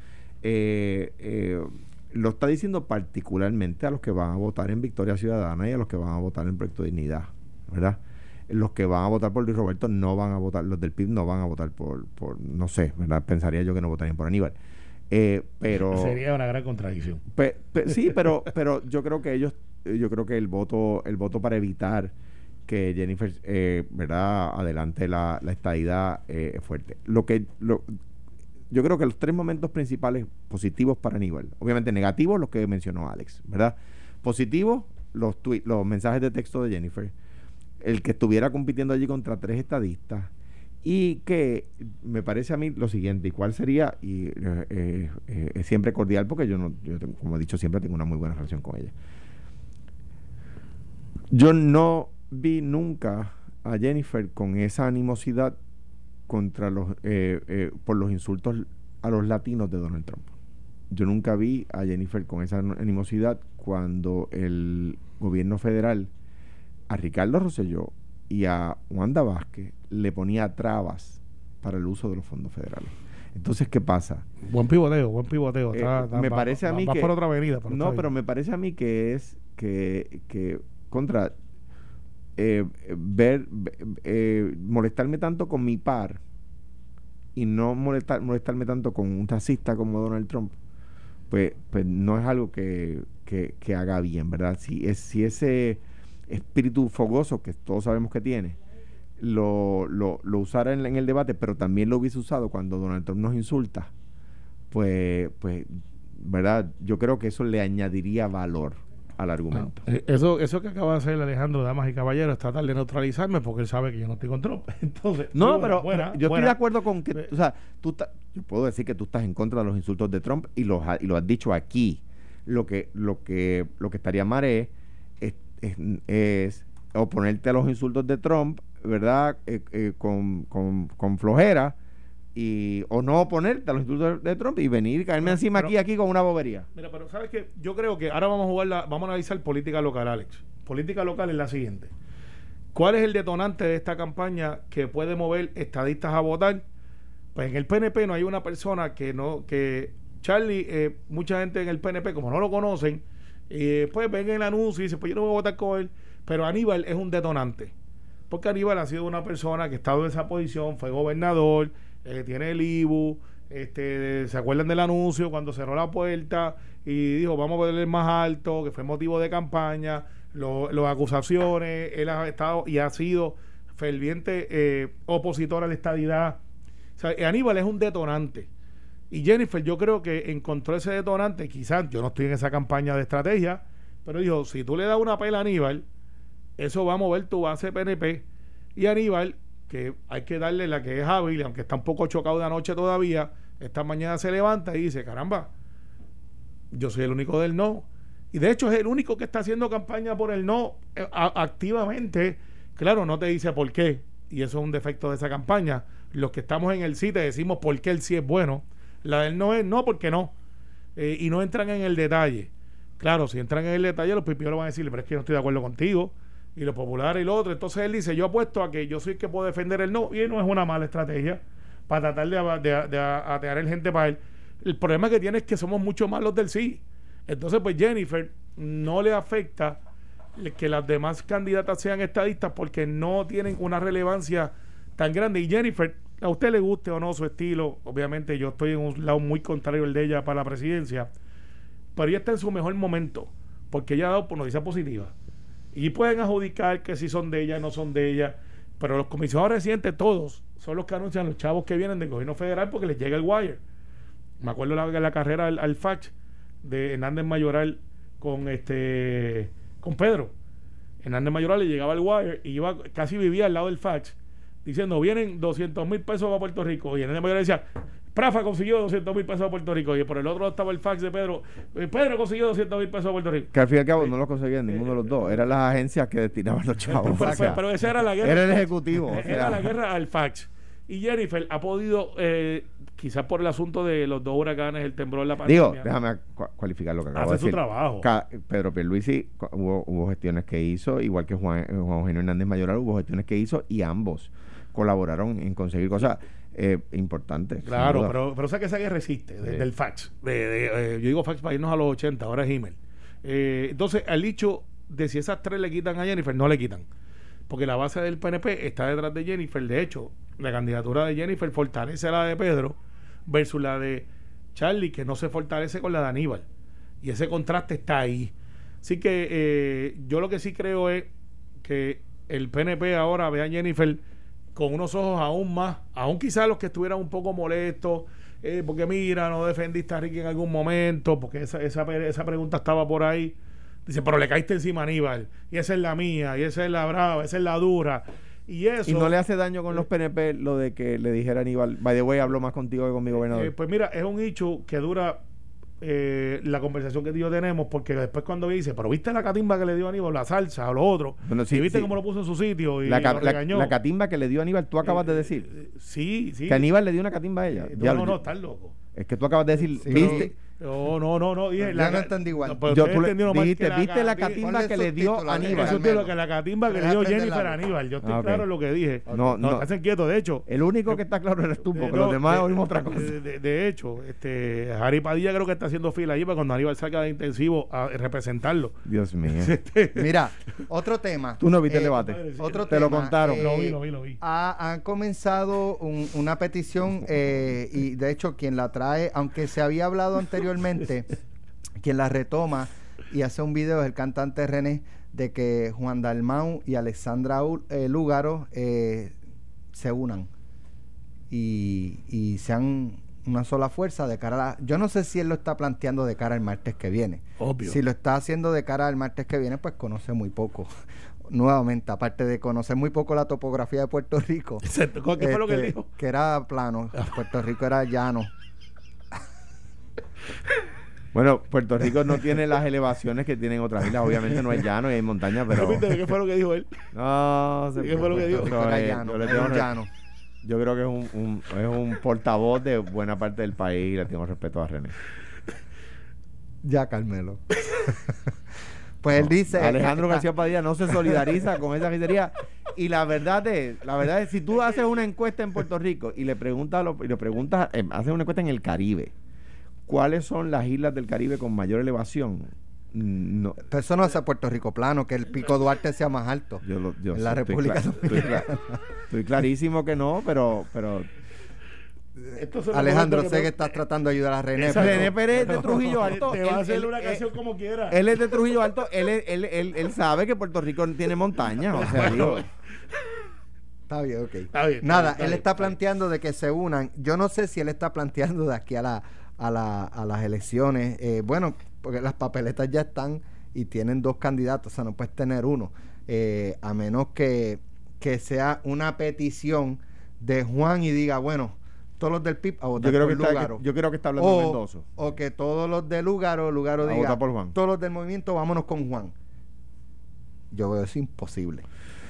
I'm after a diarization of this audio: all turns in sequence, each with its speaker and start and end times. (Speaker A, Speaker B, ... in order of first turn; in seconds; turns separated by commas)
Speaker A: 0.4-14.5, Speaker A: 15.1-16.2, Speaker B: 15.8-17.2, Speaker A: 17.3-22.1, Speaker A: 22.7-28.0, Speaker A: 28.7-37.1, Speaker A: 37.8-40.3, Speaker A: 40.8-48.9, Speaker A: 51.3-55.5, Speaker A: 56.3-60.3, Speaker A: 60.9-66.1, Speaker A: 66.9-74.2, Speaker B: 74.4-78.1, Speaker A: 75.7-77.1, Speaker A: 77.7-81.3, Speaker A: 82.4-86.2, Speaker A: 87.3-90.5, Speaker A: 91.3-98.6, Speaker A: 99.2-103.9, Speaker A: 104.7-109.8, Speaker B: 109.5-116.6, Speaker A: 115.3-131.8, Speaker A: 132.3-136.7, Speaker B: 135.2-135.7, Speaker B: 136.7-141.9, Speaker B: 142.7-146.6, Speaker B: 147.3-157.7, Speaker B: 158.3-176.4, Speaker B: 177.0-178.5, Speaker B: 179.1-185.8, Speaker B: 186.6-188.2, Speaker B: 188.8-195.5, Speaker B: 196.7-210.3, Speaker B: 210.9-229.8, Speaker B: 230.3-241.1, Speaker B: 241.9-245.1, Speaker B: 245.7-253.6, Speaker B: 254.4-256.1, Speaker B: 256.6-260.3, Speaker B: 261.0-274.1, Speaker A: 273.5-277.6, Speaker B: 274.7-275.4, Speaker B: 276.9-285.9, Speaker A: 278.2-279.7, Speaker A: 285.4-298.1, Speaker B: 287.1-288.1, Speaker B: 297.6-306.9, Speaker A: 299.4-299.7, Speaker B: 307.5-316.4, Speaker B: 317.0-321.1, Speaker B: 321.6-324.0, Speaker B: 324.5-339.1, Speaker A: 338.8-343.5, Speaker B: 343.3-345.2, Speaker B: 345.8-353.7, Speaker A: 351.2-351.9, Speaker A: 352.8-355.5, Speaker B: 354.8-356.7, Speaker A: 356.4-358.2, Speaker B: 357.5-358.7, Speaker A: 358.9-360.3, Speaker C: 359.8-360.3, Speaker B: 359.8-364.4, Speaker C: 361.6-362.6, Speaker A: 362.7-365.9, Speaker C: 364.4-366.1, Speaker B: 365.4-371.0, Speaker C: 366.7-367.6, Speaker A: 368.0-368.5, Speaker C: 369.1-369.4, Speaker A: 369.1-369.7, Speaker A: 370.4-373.2, Speaker B: 371.7-378.8, Speaker A: 378.8-379.6, Speaker B: 379.3-380.1, Speaker C: 379.9-391.2, Speaker A: 381.4-383.5, Speaker B: 381.9-384.2, Speaker C: 391.8-399.1, Speaker C: 399.7-400.3, Speaker C: 401.3-410.7, Speaker B: 407.4-407.8, Speaker C: 411.3-414.6, Speaker B: 414.6-415.9, Speaker C: 415.2-418.3, Speaker A: 421.1-425.9, Speaker B: 425.5-426.8, Speaker A: 426.9-429.7, Speaker B: 427.8-428.6, Speaker C: 428.2-429.9, Speaker A: 430.4-434.9, Speaker C: 436.6-438.2, Speaker C: 439.0-440.2, Speaker A: 439.1-449.1, Speaker A: 449.9-453.6, Speaker C: 453.6-458.8, Speaker A: 456.6-458.6, Speaker A: 459.1-461.1, Speaker B: 462.3-463.5, Speaker C: 462.7-465.1, Speaker B: 464.6-468.0, Speaker A: 464.6-467.2, Speaker A: 467.9-472.4, Speaker B: 471.8-472.4, Speaker C: 473.9-493.6, Speaker B: 474.5-475.8, Speaker A: 492.8-494.9, Speaker C: 494.2-499.1, Speaker A: 496.8-497.5, Speaker C: 500.5-501.6